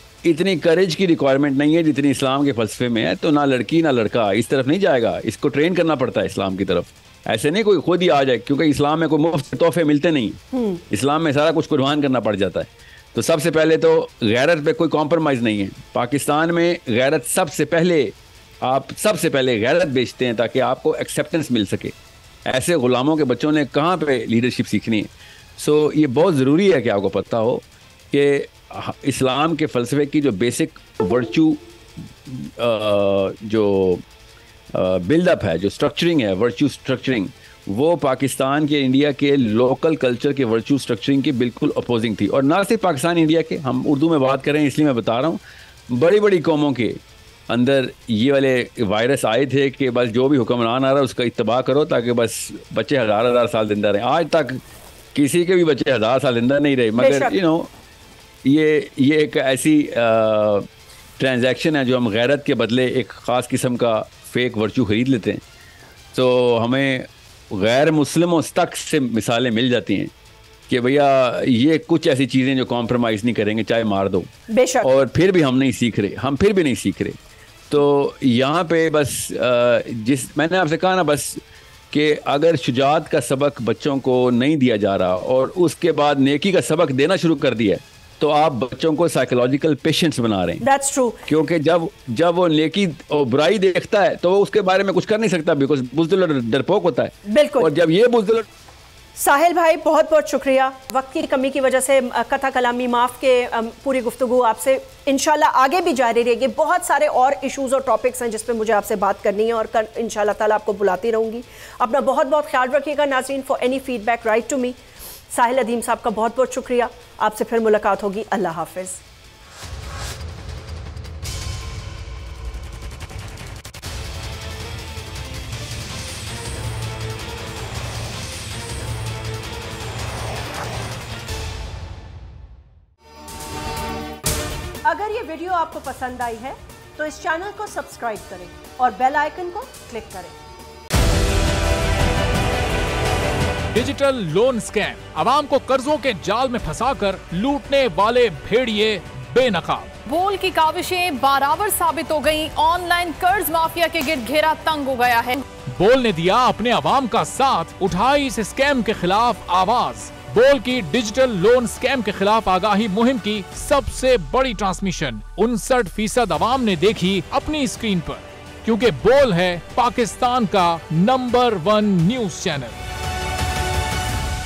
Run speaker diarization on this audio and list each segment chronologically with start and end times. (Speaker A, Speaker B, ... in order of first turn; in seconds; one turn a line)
Speaker A: 0.2-21.9
Speaker B: 10.5-10.8
Speaker A: 22.4-31.6
Speaker A: 32.2-34.0
Speaker A: 34.7-54.6
Speaker A: 55.1-57.7
Speaker B: 57.0-57.3
Speaker A: 58.4-65.4
Speaker A: 66.1-70.1
Speaker A: 70.7-74.3
Speaker B: 74.5-74.9
Speaker A: 74.8-77.2
Speaker A: 77.7-90.6
Speaker B: 90.6-91.2
Speaker A: 91.3-98.5
Speaker B: 97.2-97.7
Speaker B: 99.2-114.8
Speaker B: 115.3-119.0
Speaker B: 134.8-140.3
Speaker C: 143.7-149.9
Speaker D: 150.1-155.4
Speaker C: 155.7-172.8